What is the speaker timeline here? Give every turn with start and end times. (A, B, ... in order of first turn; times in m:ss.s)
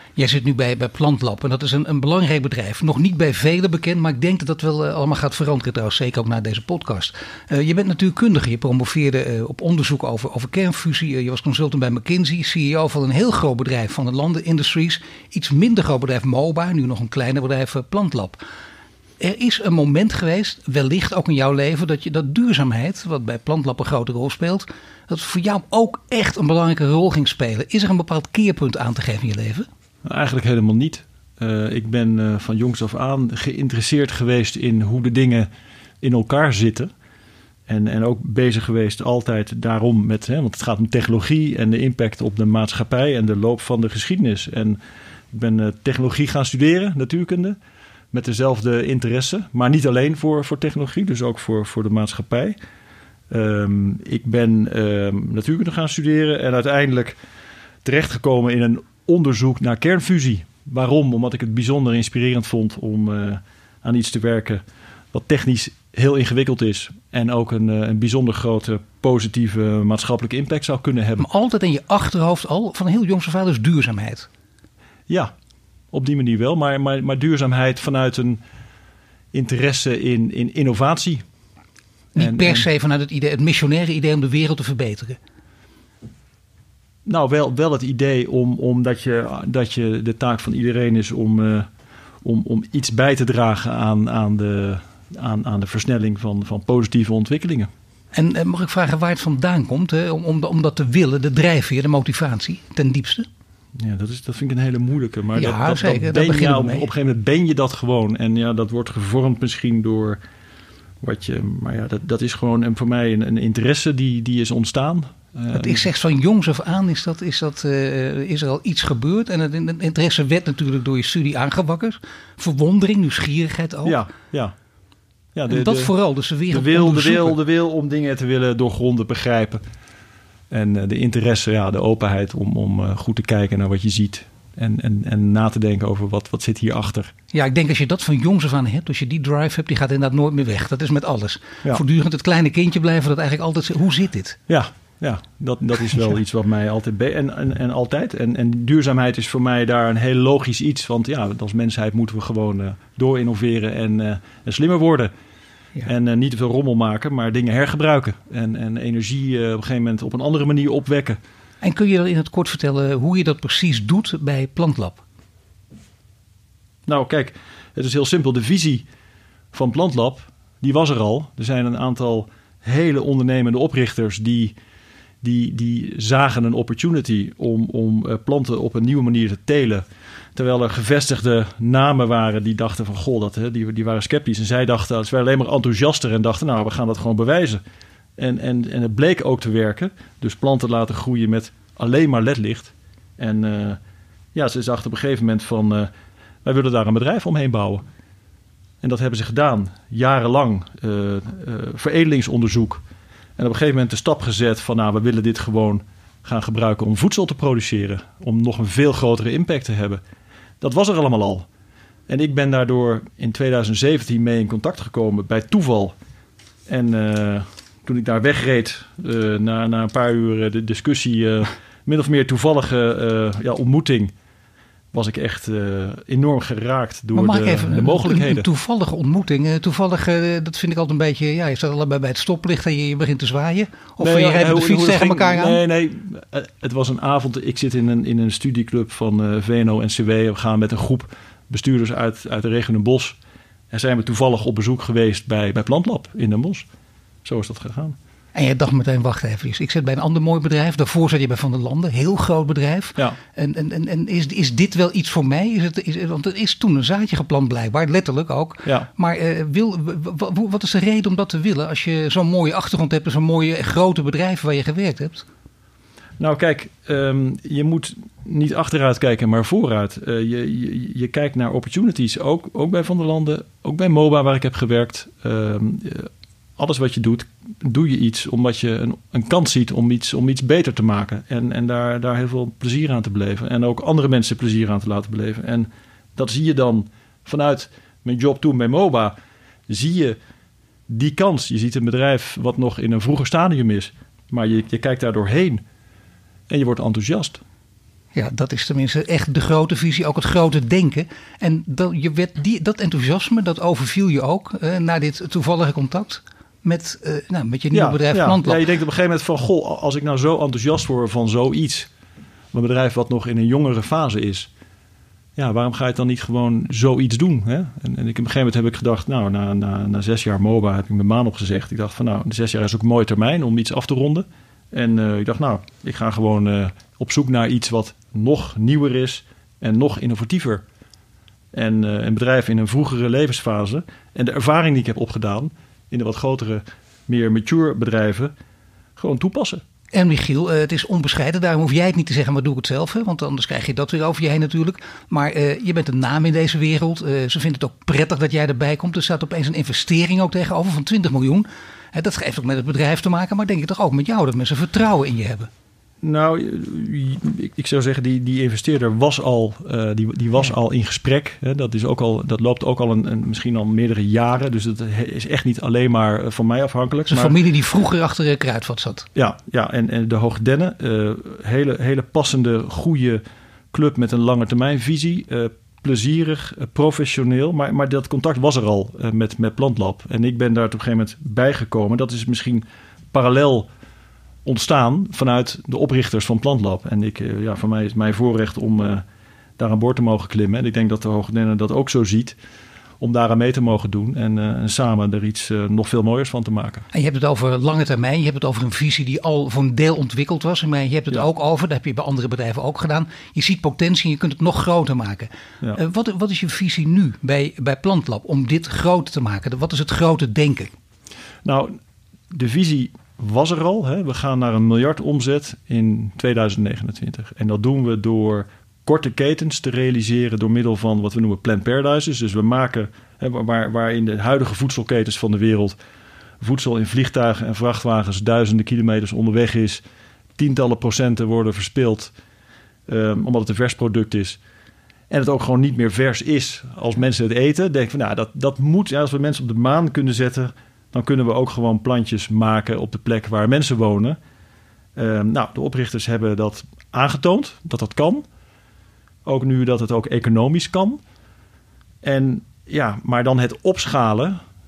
0:00.2-0:18.4 A
0:19.2-0:29.7 A
0:30.0-0:35.5 B
0:36.0-0:36.9 B
0:37.7-0:44.8 B
0:45.3-0:47.6 B
0:48.1-0:52.6 B
0:53.3-0:57.2 B
0:57.8-1:04.6 B
1:05.1-1:11.3 B
1:11.2-1:14.3 A
1:15.9-1:18.4 B
1:19.3-1:21.2 B
1:22.1-1:22.7 B
1:22.2-1:25.2 A
1:27.0-1:31.7 B
1:32.2-1:37.7 B
1:38.1-1:43.3 A
1:43.8-1:50.2 B
1:45.4-1:46.9 A
1:51.0-1:55.9 B
1:55.5-2:04.0 A
2:03.8-2:04.5 B
2:05.3-2:05.9 B
2:05.5-2:07.4 A
2:06.5-2:09.6 B
2:10.5-2:17.1 B
2:17.3-2:24.4 A
2:24.5-2:35.1 B
2:35.8-2:41.2 B
2:41.6-2:45.0 A
2:46.8-2:48.8 B
2:49.5-2:54.5 B
2:55.2-3:07.6 B
3:08.2-3:13.8 B
3:14.3-3:15.9 B
3:16.4-3:17.8 B
3:18.8-3:22.8 B
3:23.4-3:30.0 B
3:30.6-3:31.5 B
3:32.1-3:35.9 B
3:36.7-3:44.1 B
3:44.9-3:48.4 B
3:47.1-3:55.6 A
3:54.0-4:03.2 B
4:03.7-4:06.6 B
4:07.2-4:08.0 B
4:08.3-4:25.2 A
4:18.6-4:18.9 B
4:26.2-4:49.1 B
4:49.7-4:50.2 B
4:50.9-4:55.6 B
4:56.5-4:57.4 B
4:58.1-5:08.6 A
5:07.7-5:11.9 B
5:12.5-5:14.5 B
5:15.4-5:30.6 B
5:31.5-5:38.3 B
5:39.0-5:39.6 B
5:39.9-5:55.5 A
5:56.0-6:07.4 B
6:07.1-6:09.1 A
6:09.1-6:23.7 B
6:24.4-6:29.0 B
6:29.6-6:32.4 B
6:33.0-6:36.8 B
6:36.9-6:50.7 A
6:51.4-6:51.7 B
6:52.3-7:05.8 B
7:06.4-7:09.8 B
7:10.4-7:12.1 B
7:12.9-7:14.4 B
7:15.1-7:24.2 B
7:25.0-7:28.2 B
7:29.2-7:31.0 B
7:32.0-7:34.4 B